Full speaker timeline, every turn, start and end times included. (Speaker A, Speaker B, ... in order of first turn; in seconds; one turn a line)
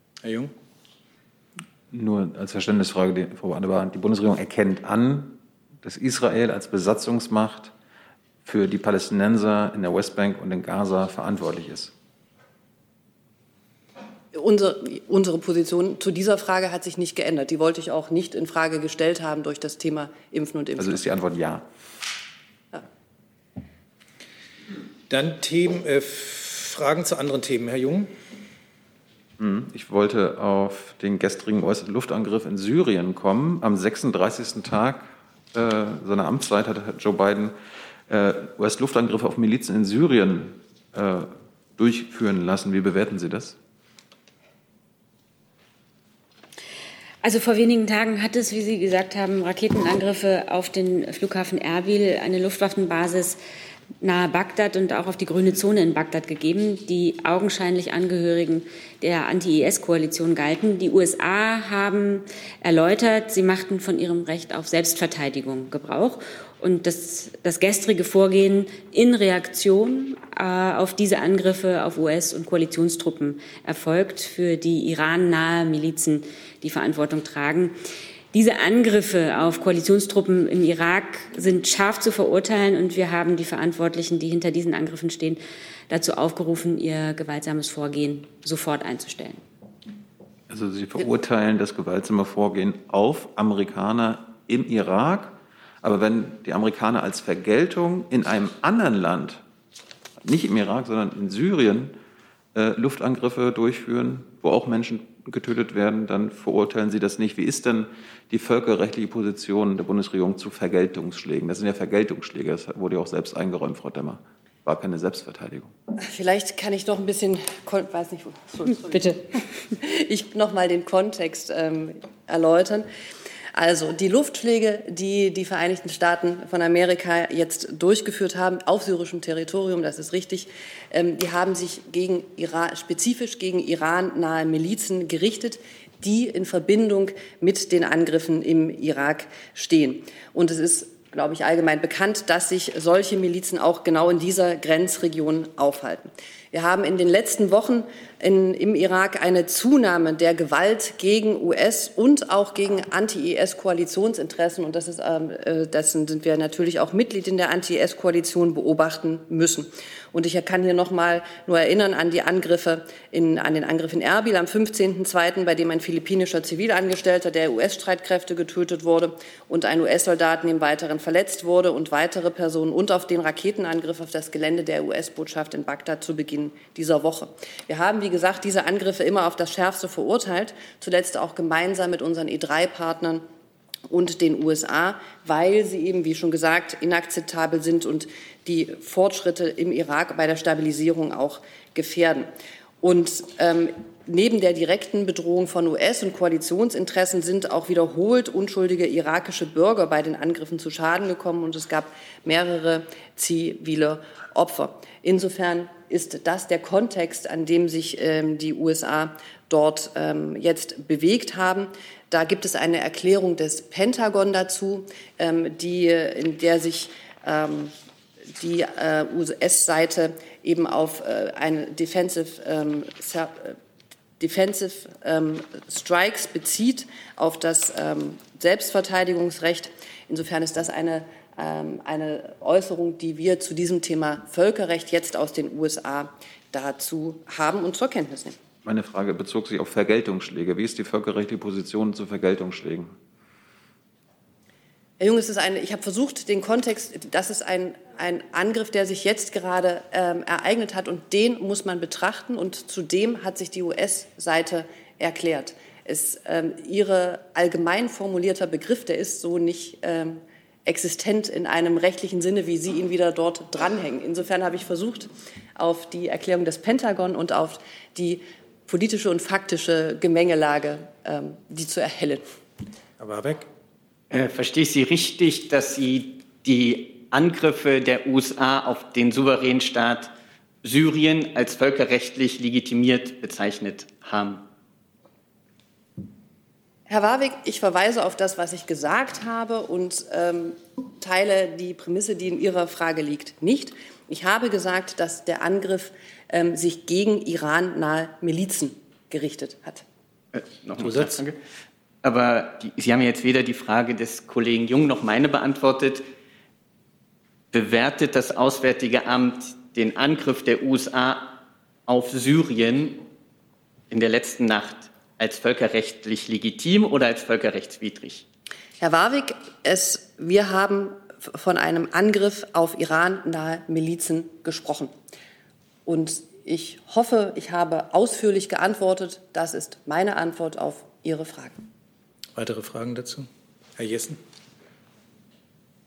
Speaker A: 0.2-0.5
Speaker B: 1.9-7.7
Speaker B: 8.4-11.9
Speaker C: 14.3-21.0
Speaker B: 20.8-21.6
Speaker A: 25.1-28.1
Speaker B: 29.4-37.5
Speaker B: 38.1-43.5
Speaker D: 47.2-53.4
Speaker D: 54.0-77.8
Speaker D: 78.3-89.4
Speaker B: 90.5-99.4
Speaker B: 100.2-101.9
Speaker B: 102.5-115.7
Speaker C: 116.0-122.9
Speaker C: 123.5-183.2
Speaker C: 183.9-217.7
Speaker C: 218.3-223.6
Speaker C: 224.2-238.4
Speaker B: 238.6-242.9
Speaker C: 245.0-272.2
Speaker A: 273.0-273.5
Speaker E: 274.1-284.4
Speaker C: 286.9-299.8
Speaker E: 300.3-301.4
Speaker A: 300.8-301.2
Speaker E: 302.0-306.1
Speaker E: 307.5-313.0
Speaker E: 313.9-318.2
Speaker C: 318.8-324.9
Speaker C: 325.9-331.6
Speaker A: 332.4-334.2